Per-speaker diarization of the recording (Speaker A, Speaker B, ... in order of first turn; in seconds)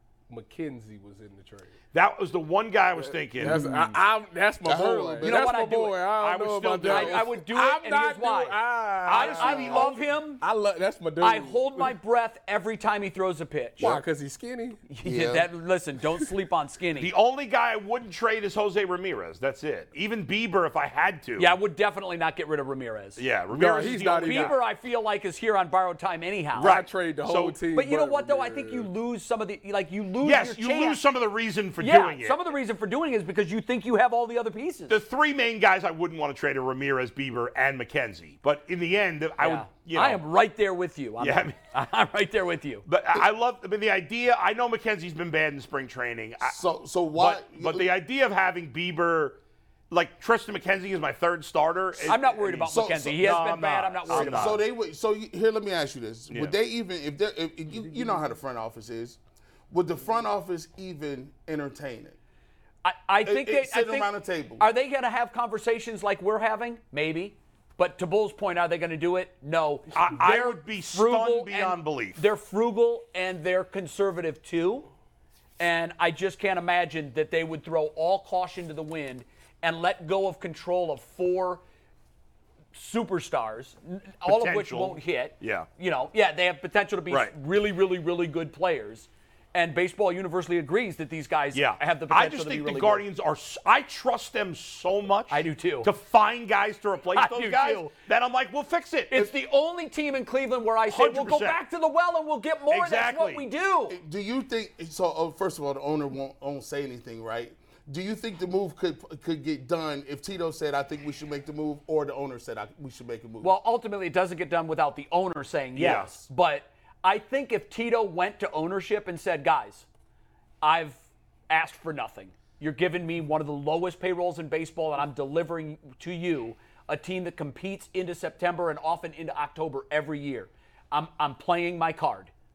Speaker A: 0.3-1.7, 3.0-11.9, 13.8-14.8, 23.5-24.6, 26.6-28.9
Speaker B: 1.9-3.6, 6.2-7.3, 9.1-10.0, 17.0-21.6, 23.2-24.6, 26.6-27.6, 30.2-32.5, 34.9-40.2, 41.2-41.6, 42.9-46.6, 47.1-49.4, 49.9-54.6, 69.9-72.2, 84.3-85.7, 91.5-99.3, 100.9-101.6, 102.7-103.5, 115.8-116.2
Speaker C: 3.4-3.9, 5.2-6.0, 6.8-10.4, 11.2-14.0, 14.9-17.1, 21.4-23.2, 24.2-26.8, 27.7-31.0, 31.8-35.0, 39.4-42.9, 52.1-54.6, 62.8-74.9, 75.6-81.6, 82.7-93.0, 95.3-95.9, 97.1-97.9, 99.1-104.0, 113.4-119.9, 120.6-132.3
Speaker D: 4.6-5.5, 15.0-15.5, 46.4-47.9, 52.7-53.4, 54.1-59.2, 59.7-62.2, 63.2-64.7, 103.9-113.5